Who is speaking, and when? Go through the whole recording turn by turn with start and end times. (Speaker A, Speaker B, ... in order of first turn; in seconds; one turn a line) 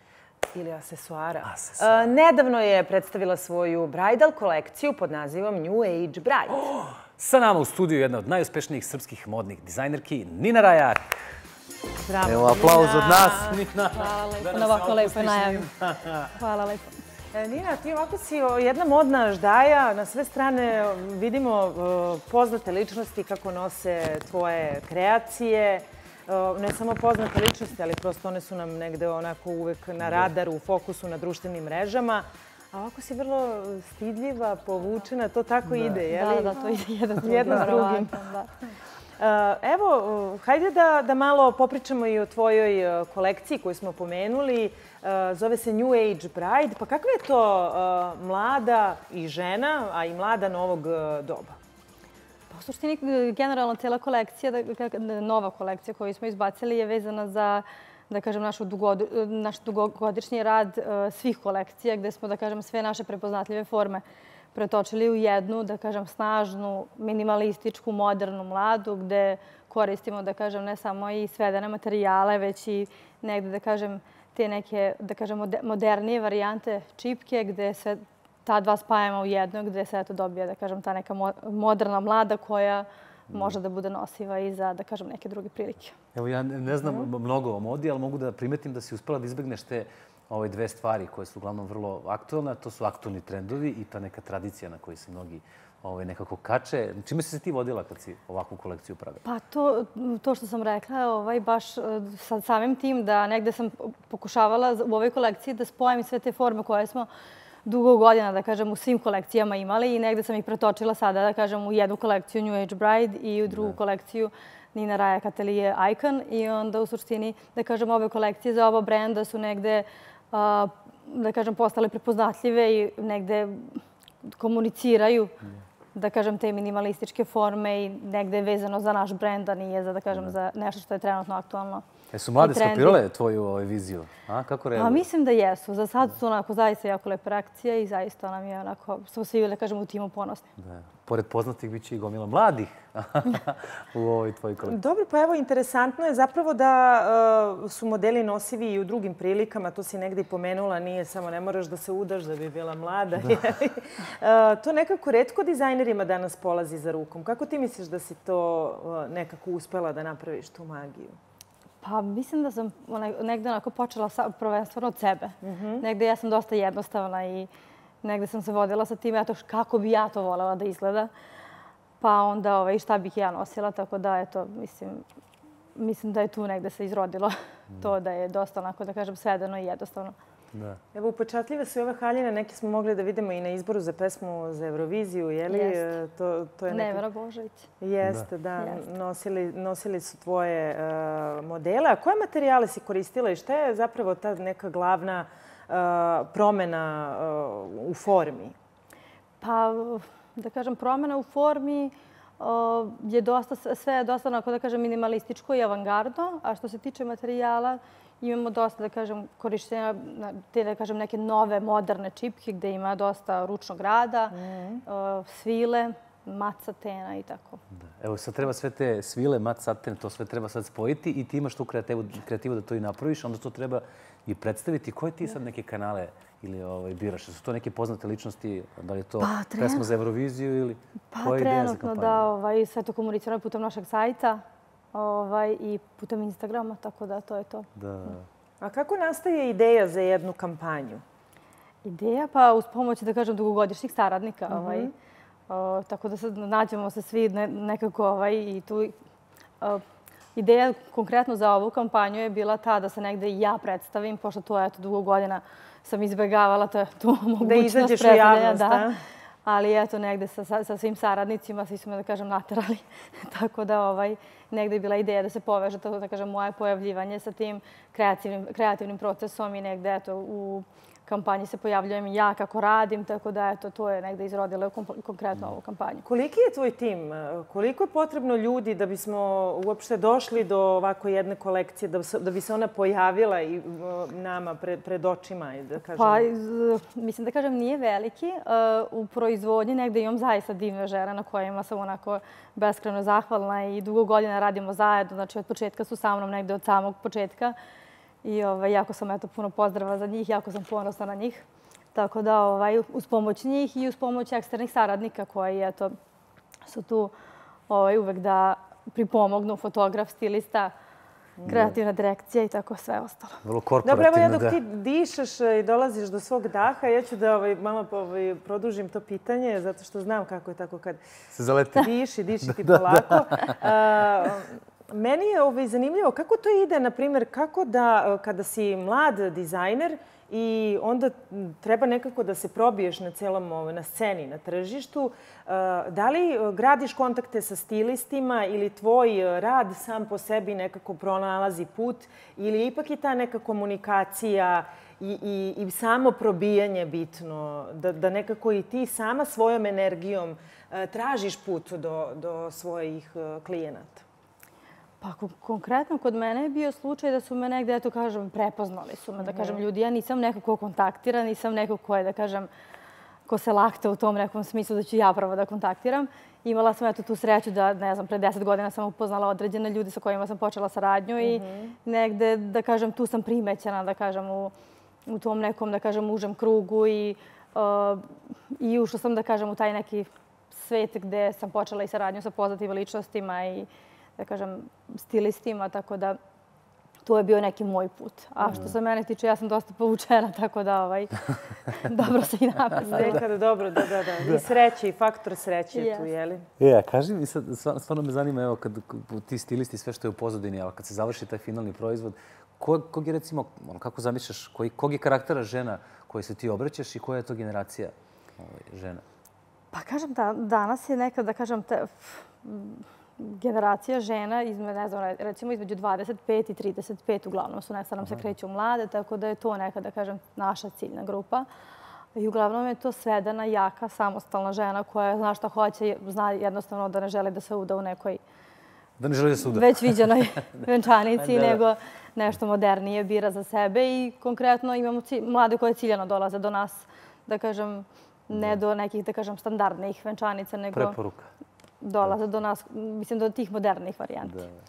Speaker A: 0.5-6.7
Speaker B: 1.4-2.1
Speaker B: 6.7-11.2
Speaker A: 12.0-13.6
Speaker B: 12.2-16.3
Speaker C: 13.9-15.7
Speaker A: 14.6-15.0
Speaker C: 16.3-17.0
Speaker A: 17.3-38.1
Speaker C: 36.1-38.5
Speaker A: 39.2-51.6
Speaker C: 52.5-86.0
Speaker B: 83.3-83.6
Speaker B: 86.2-99.2
Speaker A: 86.8-87.1
Speaker C: 99.2-107.1
Speaker C: 107.7-125.3
Speaker B: 113.5-113.8
Speaker C: 126.0-131.8
Speaker B: 132.1-135.1
Speaker C: 132.4-133.0
Speaker C: 134.8-140.5
Speaker B: 140.6-144.8
Speaker A: 144.6-161.2
Speaker C: 161.8-167.5
Speaker A: 165.4-165.8
Speaker C: 168.0-171.1
Speaker C: 172.0-175.0
Speaker C: 175.8-180.2
Speaker B: 180.5-180.8
Speaker A: 180.9-187.0
Speaker C: 185.5-185.9
Speaker C: 186.7-187.7
Speaker A: 187.8-198.6
Speaker C: 199.4-217.6
Speaker A: 214.3-214.8
Speaker B: 217.7-232.3
Speaker C: 229.2-229.9
Speaker C: 231.1-234.4
Speaker C: 234.9-237.7
Speaker B: 237.8-238.3
Speaker A: 238.6-241.0
Speaker C: 241.8-244.9
Speaker A: 244.5-244.9
Speaker C: 245.5-248.9
Speaker C: 250.3-258.9
Speaker A: 257.4-259.0
Speaker C: 259.4-276.0
Speaker A: 276.1-286.3
Speaker C: 285.9-297.6
Speaker C: 298.2-305.9
Speaker C: 306.6-307.1
Speaker C: 307.7-310.7
Speaker A: 311.4-311.7
Speaker C: 311.4-313.4
Speaker B: 311.5-311.8
Speaker B: 313.4-314.6
Speaker A: 313.8-321.0
Speaker B: 321.3-321.9
Speaker A: 321.7-354.0
Speaker B: 322.4-323.6
Speaker C: 355.0-362.5
Speaker A: 359.2-359.6
Speaker C: 363.3-374.5
Speaker A: 371.2-371.8
Speaker C: 375.1-386.2
Speaker C: 387.1-393.2
Speaker A: 388.4-388.7
Speaker A: 392.8-396.4
Speaker C: 395.7-396.1
Speaker B: 396.6-409.0
Speaker C: 409.7-421.5
Speaker C: 422.1-428.2
Speaker B: 429.0-430.5
Speaker C: 429.4-441.0
Speaker B: 431.2-431.6
Speaker B: 438.3-438.6
Speaker B: 440.7-441.3
Speaker C: 441.8-444.4
Speaker B: 444.2-444.6